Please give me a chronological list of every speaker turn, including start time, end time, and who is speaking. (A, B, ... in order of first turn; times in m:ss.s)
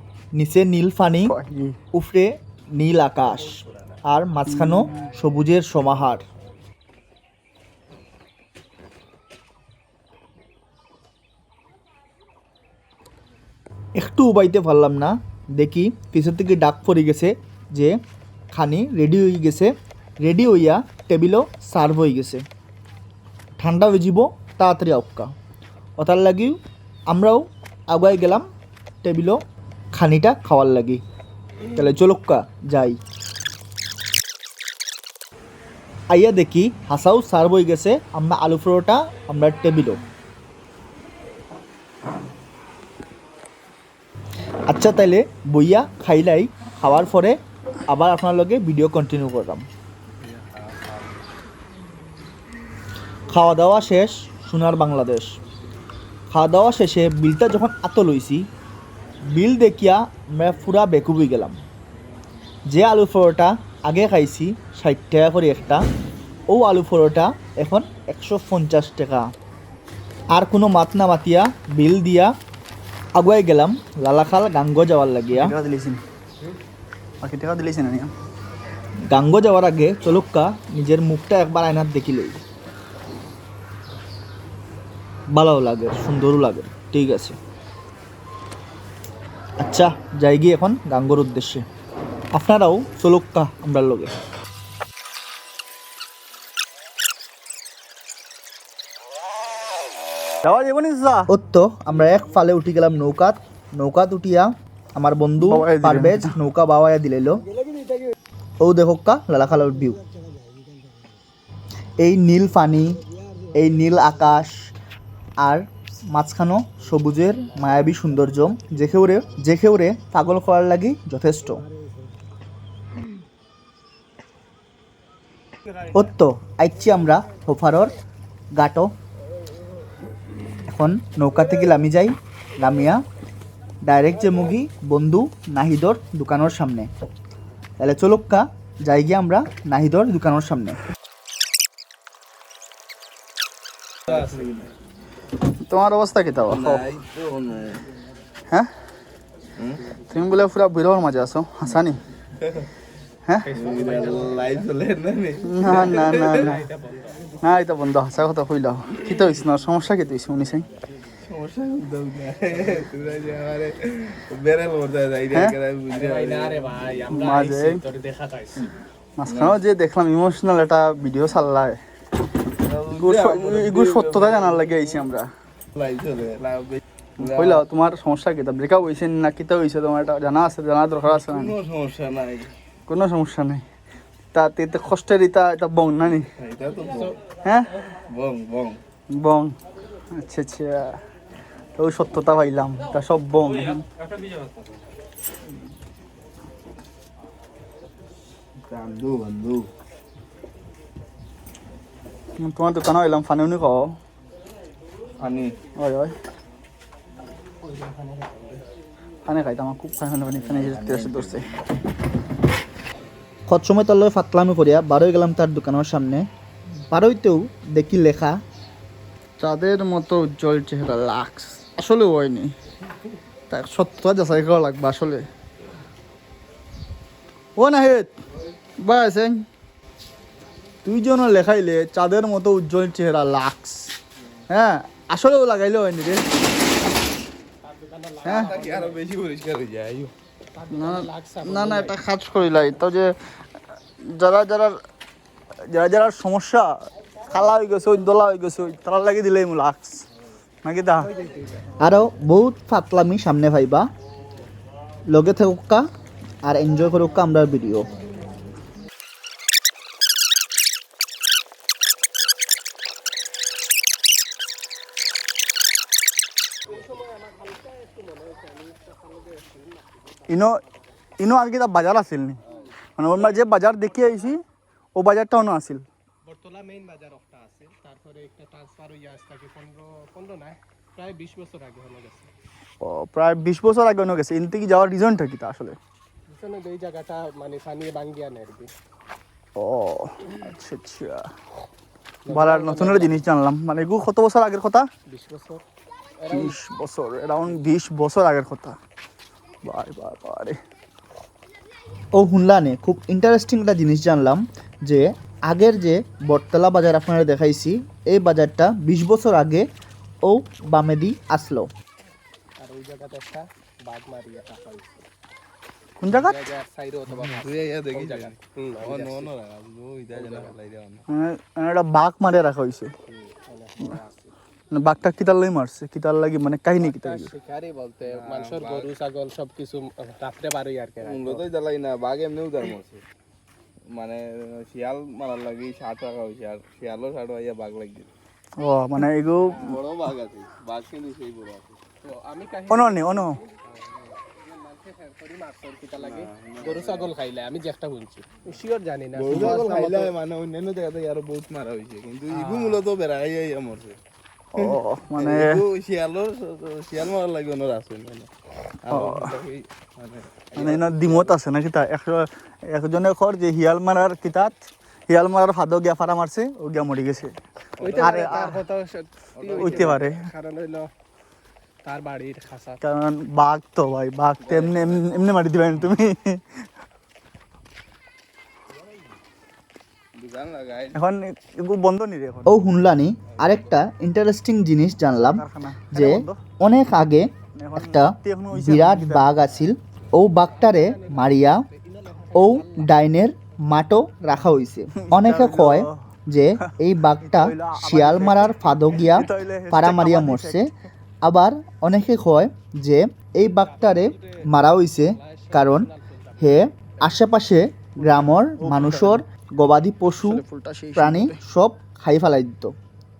0:00.3-0:01.3 A
0:01.2-0:01.8 B
0:01.9-0:06.2 A
0:04.5-0:05.0 B
0:14.0-0:18.0 A
0:18.5-0:22.4 A
0:23.6-0:25.3 A
0:26.0-0:26.6 A
0:27.1-0:28.5 A
0:29.0-0:29.4 A
0:29.9-0:31.0 A
0:31.7-0:33.0 A
0:36.1-0:40.0 A
0:44.7-0:49.7 A
0:50.2-0:50.9 C
0:53.3-0:55.3 A
0:56.3-0:58.5 A
0:59.3-1:01.6 A
1:02.7-1:05.8 A
1:06.5-1:09.3 A
1:10.3-1:12.3 A
1:13.1-1:15.6 A
1:15.3-1:16.0 B
1:17.2-1:18.1 B
1:19.1-1:22.4 A
1:25.3-1:27.4 A
1:29.6-1:31.6 A
1:32.3-1:34.1 A
1:40.4-1:41.3 B
1:41.3-1:47.4 A
1:45.4-1:46.4 B
1:48.6-1:50.0 A
1:52.0-1:53.0 A
1:53.5-1:54.6 A
1:55.4-2:01.6 A
2:05.9-2:07.9 A
2:08.5-2:08.9 A
2:10.7-2:13.0 A
2:13.8-2:16.9 A
2:17.8-2:20.8 A
2:24.1-2:24.7 C
2:25.6-2:26.8 B
2:26.5-2:27.8 C
2:29.6-2:29.9 C
2:30.1-2:32.0 B
2:33.4-2:34.7 D
2:33.5-2:36.6 C
2:35.4-2:36.7 B
2:35.8-2:37.2 D
2:37.4-2:40.7 B
2:41.2-2:47.0 C
2:45.9-2:48.7 D
2:47.1-2:47.8 B
2:49.2-2:51.8 B
2:49.3-2:49.6 C
2:52.6-2:55.0 C
2:53.0-2:55.3 B
2:55.7-2:57.6 C
2:57.2-3:01.6 B
3:01.1-3:02.5 C
3:02.9-3:03.6 B
3:04.3-3:06.3 B
3:06.4-3:07.2 C
3:07.4-3:07.7 B
3:08.1-3:08.8 C
3:09.1-3:09.5 B
3:10.1-3:11.0 B
3:11.8-3:13.8 B
3:18.6-3:19.7 C
3:22.4-3:24.0 B
3:25.2-3:25.5 C
3:25.8-3:26.1 B
3:27.6-3:28.6 D
3:29.2-3:31.5 B
3:30.4-3:31.5 C
3:33.5-3:36.2 A
3:36.9-3:38.4 A
3:39.4-3:42.5 B
3:43.5-3:45.3 B
3:47.6-3:48.1 B
3:48.8-3:49.4 B
3:50.8-3:53.9 B
3:54.5-3:56.3 B
3:57.6-3:59.0 D
3:58.2-3:58.5 B
3:58.2-4:00.1 C
4:00.5-4:02.0 D
4:00.7-4:03.1 B
4:04.0-4:04.8 B
4:05.7-4:06.7 B
4:07.3-4:10.0 B
4:10.6-4:11.1 B
4:11.1-4:11.7 D
4:11.8-4:13.9 A
4:15.1-4:15.9 A
4:16.4-4:18.0 A
4:26.6-4:30.6 D
4:30.3-4:30.6 B
4:31.2-4:32.4 B
4:33.0-4:34.4 B
4:35.0-4:35.8 B
4:36.2-4:42.3 D
4:42.8-4:45.8 B
4:46.3-4:48.7 D
4:49.6-4:51.3 B
4:52.2-4:53.2 D
4:52.3-4:54.9 B
4:55.1-4:55.6 D
4:56.2-4:56.5 D
4:56.3-4:58.8 B
4:59.6-5:00.6 B
5:02.1-5:09.6 A
5:10.2-5:11.7 A
5:12.6-5:15.0 D
5:16.0-5:16.4 B
5:16.1-5:19.3 D
5:17.1-5:21.0 C
5:20.1-5:20.5 D
5:21.1-5:22.9 B
5:23.4-5:24.3 D
5:24.7-5:27.3 B
5:26.8-5:31.5 D
5:28.0-5:28.9 C
5:31.0-5:33.0 C
5:33.9-5:38.1 C
5:38.6-5:39.8 B
5:39.6-5:41.8 C
5:42.0-5:50.1 D
5:42.7-5:43.4 B
5:46.0-5:47.1 C
5:49.2-5:54.0 C
5:49.3-5:49.6 B
5:52.3-5:52.8 D
5:54.5-5:55.6 B
5:54.6-5:58.3 C
5:58.8-6:01.3 C
5:58.9-5:59.3 B
6:00.6-6:07.3 B
6:07.8-6:08.5 C
6:07.8-6:10.9 D
6:08.0-6:08.6 B
6:09.3-6:10.0 C
6:09.5-6:10.2 B
6:11.8-6:12.8 D
6:12.8-6:16.4 B
6:14.4-6:15.2 C
6:20.1-6:21.0 C
6:20.9-6:22.6 B
6:22.4-6:31.6 A
6:23.3-6:23.7 C
6:25.2-6:26.4 B
6:27.5-6:29.4 B
6:30.4-6:32.9 D
6:32.3-6:40.7 A
6:35.0-6:36.1 B
6:36.6-6:40.6 B
6:41.2-6:45.9 A
6:43.6-6:47.2 D
6:46.4-6:50.4 A
6:48.0-6:49.2 B
6:50.2-6:51.4 B
6:51.0-6:52.7 A